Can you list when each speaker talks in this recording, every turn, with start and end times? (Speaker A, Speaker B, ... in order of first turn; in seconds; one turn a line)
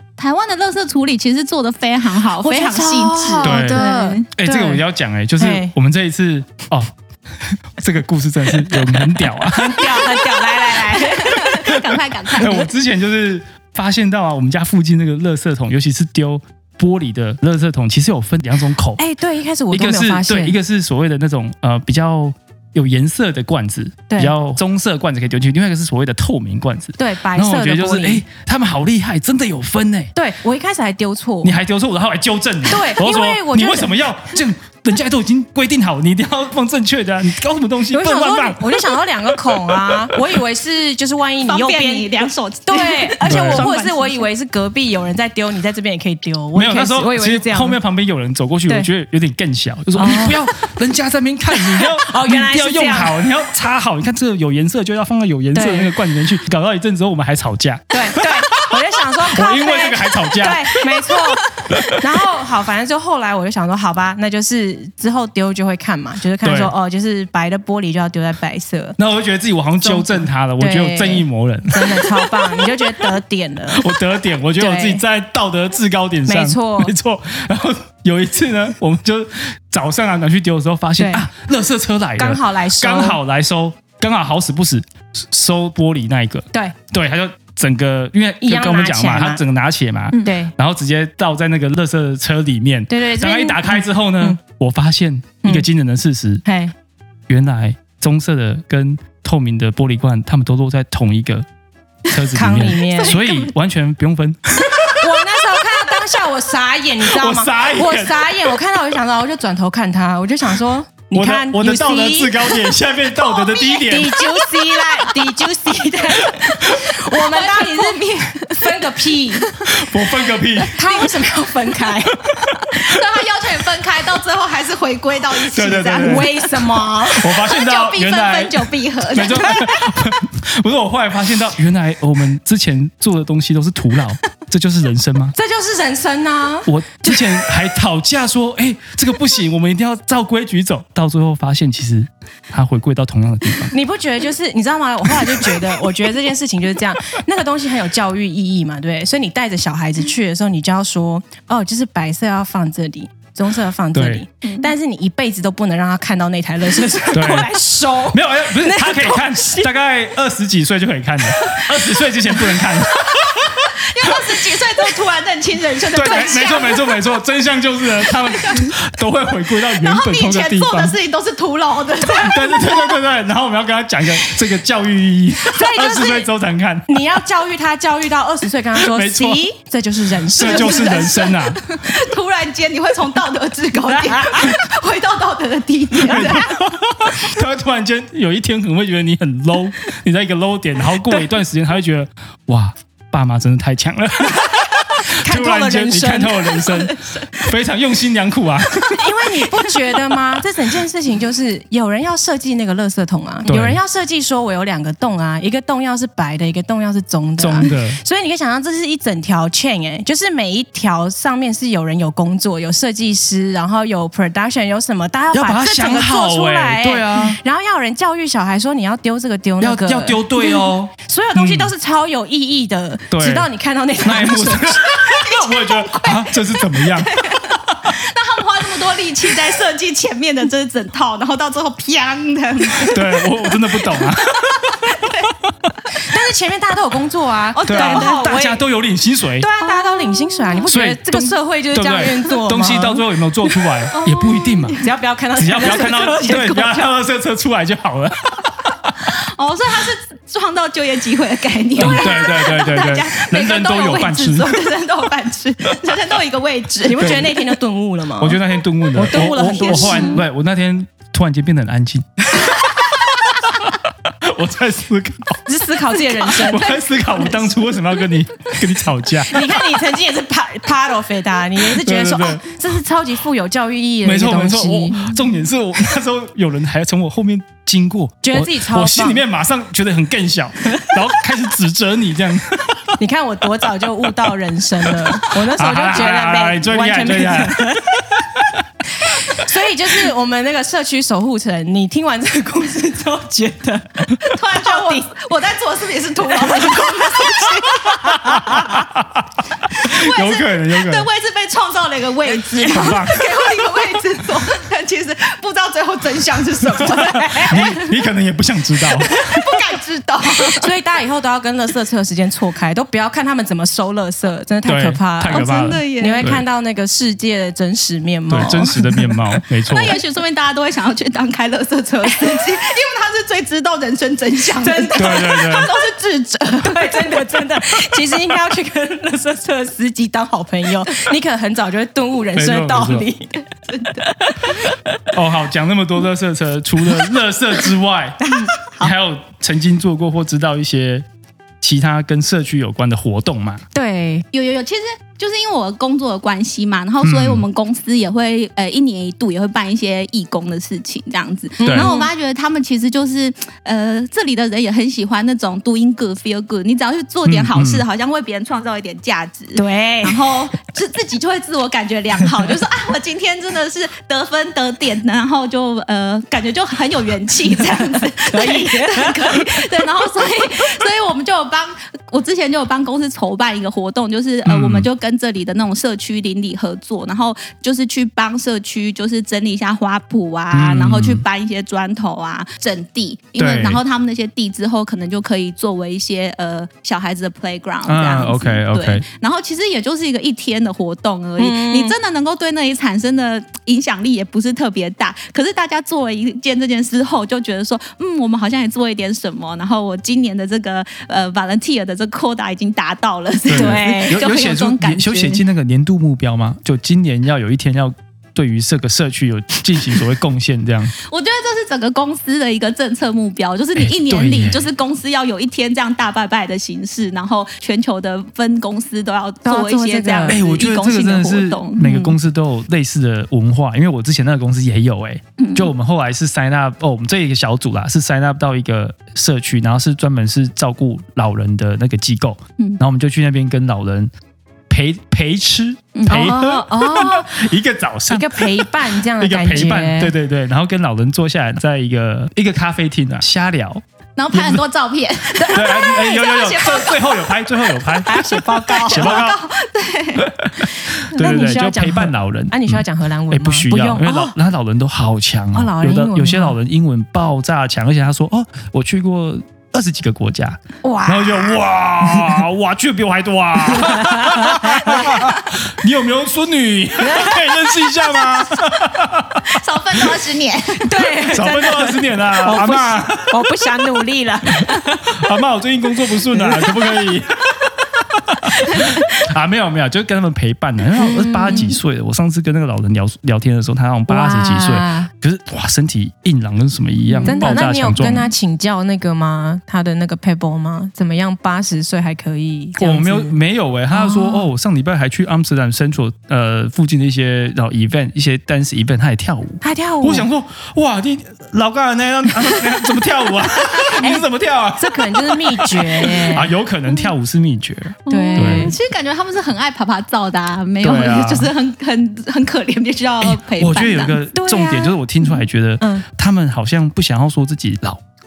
Speaker A: 0.2-4.3
Speaker B: 2.4-4.8
Speaker C: 3.4-10.1
Speaker B: 5.4-5.7
Speaker B: 9.4-11.8
Speaker A: 9.9-12.7
Speaker C: 12.3-19.0
Speaker B: 19.0-20.6
Speaker C: 19.7-30.1
Speaker B: 27.0-28.2
Speaker B: 30.1-31.6
Speaker C: 31.4-40.2
Speaker B: 32.6-34.0
Speaker B: 37.9-47.8
Speaker A: 41.4-44.2
Speaker C: 43.2-43.7
Speaker C: 46.5-62.0
Speaker B: 50.0-50.5
Speaker B: 51.5-53.2
Speaker B: 55.5-56.0
Speaker B: 57.9-69.0
Speaker C: 66.4-66.7
Speaker C: 69.0-73.1
Speaker B: 69.8-74.0
Speaker C: 73.7-96.4
Speaker B: 74.6-75.0
Speaker B: 76.3-76.9
Speaker B: 81.0-81.3
Speaker B: 82.2-83.2
Speaker B: 88.4-89.4
Speaker B: 90.1-90.5
Speaker B: 92.9-94.4
Speaker B: 96.5-96.7
Speaker C: 97.3-101.5
Speaker C: 102.1-105.1
Speaker B: 102.3-103.2
Speaker A: 103.0-103.5
Speaker B: 104.9-112.7
Speaker C: 107.0-108.3
Speaker C: 111.1-114.2
Speaker A: 113.2-115.4
Speaker B: 113.6-119.6
Speaker A: 116.2-119.8
Speaker C: 119.7-120.8
Speaker B: 120.7-122.5
Speaker A: 120.8-121.2
Speaker C: 122.4-122.7
Speaker A: 122.7-126.7
Speaker C: 125.5-126.3
Speaker B: 126.0-127.4
Speaker C: 127.1-135.4
Speaker A: 127.2-129.9
Speaker B: 135.4-137.5
Speaker C: 136.7-143.8
Speaker B: 143.7-159.7
Speaker C: 145.3-145.7
Speaker C: 153.9-154.2
Speaker A: 154.4-154.7
Speaker C: 157.1-164.2
Speaker A: 162.9-167.1
Speaker C: 165.9-170.9
Speaker A: 168.0-168.8
Speaker A: 169.7-173.0
Speaker C: 172.1-176.9
Speaker B: 175.5-176.3
Speaker B: 176.9-181.3
Speaker C: 178.8-179.5
Speaker C: 180.3-181.6
Speaker A: 180.4-186.6
Speaker B: 183.9-184.6
Speaker C: 186.1-199.0
Speaker B: 186.1-186.4
Speaker B: 195.0-196.8
Speaker B: 198.9-225.0
Speaker C: 203.5-203.8
Speaker C: 207.4-208.0
Speaker C: 215.3-217.4
Speaker C: 219.6-221.7
Speaker C: 223.1-223.5
Speaker C: 224.0-227.9
Speaker A: 225.0-233.5
Speaker C: 232.8-235.5
Speaker A: 234.1-235.3
Speaker B: 236.0-238.6
Speaker A: 237.5-238.3
Speaker C: 237.7-239.5
Speaker B: 239.4-243.8
Speaker A: 239.6-240.7
Speaker C: 240.7-244.8
Speaker A: 243.9-244.9
Speaker B: 244.8-246.9
Speaker C: 245.4-249.1
Speaker A: 249.2-257.1
Speaker C: 251.8-254.6
Speaker B: 256.8-258.4
Speaker C: 257.0-257.4
Speaker C: 258.2-265.4
Speaker B: 258.9-260.2
Speaker A: 259.5-260.2
Speaker B: 265.5-266.8
Speaker A: 266.2-266.8
Speaker C: 266.3-269.4
Speaker B: 269.3-275.2
Speaker C: 271.6-272.5
Speaker C: 274.0-283.0
Speaker B: 278.2-279.2
Speaker B: 283.0-288.2
Speaker C: 284.8-288.6
Speaker B: 289.0-295.1
Speaker A: 294.2-298.6
Speaker B: 296.5-298.7
Speaker C: 298.1-301.1
Speaker A: 299.8-308.0
Speaker B: 302.6-303.0
Speaker C: 302.6-303.3
Speaker C: 306.9-309.4
Speaker A: 309.0-310.7
Speaker B: 310.4-319.2
Speaker C: 314.7-316.4
Speaker A: 315.3-316.2
Speaker C: 318.3-320.0
Speaker A: 319.7-327.2
Speaker B: 324.6-325.6
Speaker C: 324.9-325.7
Speaker B: 326.6-333.4
Speaker C: 332.4-333.1
Speaker A: 333.6-334.1
Speaker B: 333.9-335.0
Speaker C: 335.1-341.1
Speaker B: 338.2-338.5
Speaker A: 338.3-338.9
Speaker C: 341.6-343.6
Speaker B: 343.7-344.2
Speaker A: 344.3-405.4
Speaker C: 347.0-347.4
Speaker B: 351.6-352.1
Speaker C: 351.6-351.9
Speaker C: 357.3-357.8
Speaker B: 359.6-360.4
Speaker B: 367.8-369.7
Speaker C: 374.4-374.9
Speaker C: 380.5-381.2
Speaker C: 383.4-383.8
Speaker C: 387.9-389.0
Speaker B: 391.4-392.0
Speaker C: 403.5-410.9
Speaker B: 403.5-404.2
Speaker A: 411.1-422.2
Speaker C: 413.8-414.6
Speaker B: 419.4-420.4
Speaker C: 420.3-434.1
Speaker A: 425.4-425.7
Speaker C: 434.7-444.6
Speaker A: 435.9-436.4
Speaker B: 436.1-437.5
Speaker B: 438.1-440.1
Speaker A: 444.2-447.5
Speaker C: 445.5-449.4
Speaker B: 448.1-449.2
Speaker A: 448.1-450.4
Speaker C: 450.2-470.1
Speaker B: 451.1-454.4
Speaker B: 455.5-456.6
Speaker B: 460.8-462.4
Speaker B: 463.7-465.3
Speaker B: 467.0-467.8
Speaker A: 469.5-471.0
Speaker B: 470.8-475.2
Speaker C: 471.3-473.4
Speaker C: 474.5-488.3
Speaker B: 476.3-477.2
Speaker B: 478.6-479.0
Speaker A: 478.7-479.0
Speaker B: 481.0-481.8
Speaker B: 484.1-485.1
Speaker A: 487.1-487.4
Speaker B: 487.2-493.4
Speaker C: 492.8-508.7
Speaker B: 493.9-494.5
Speaker B: 499.6-500.3
Speaker B: 504.0-504.2
Speaker B: 504.8-506.5
Speaker A: 508.1-514.2
Speaker B: 508.1-508.8
Speaker C: 510.8-511.5
Speaker C: 513.2-518.0
Speaker B: 514.3-516.0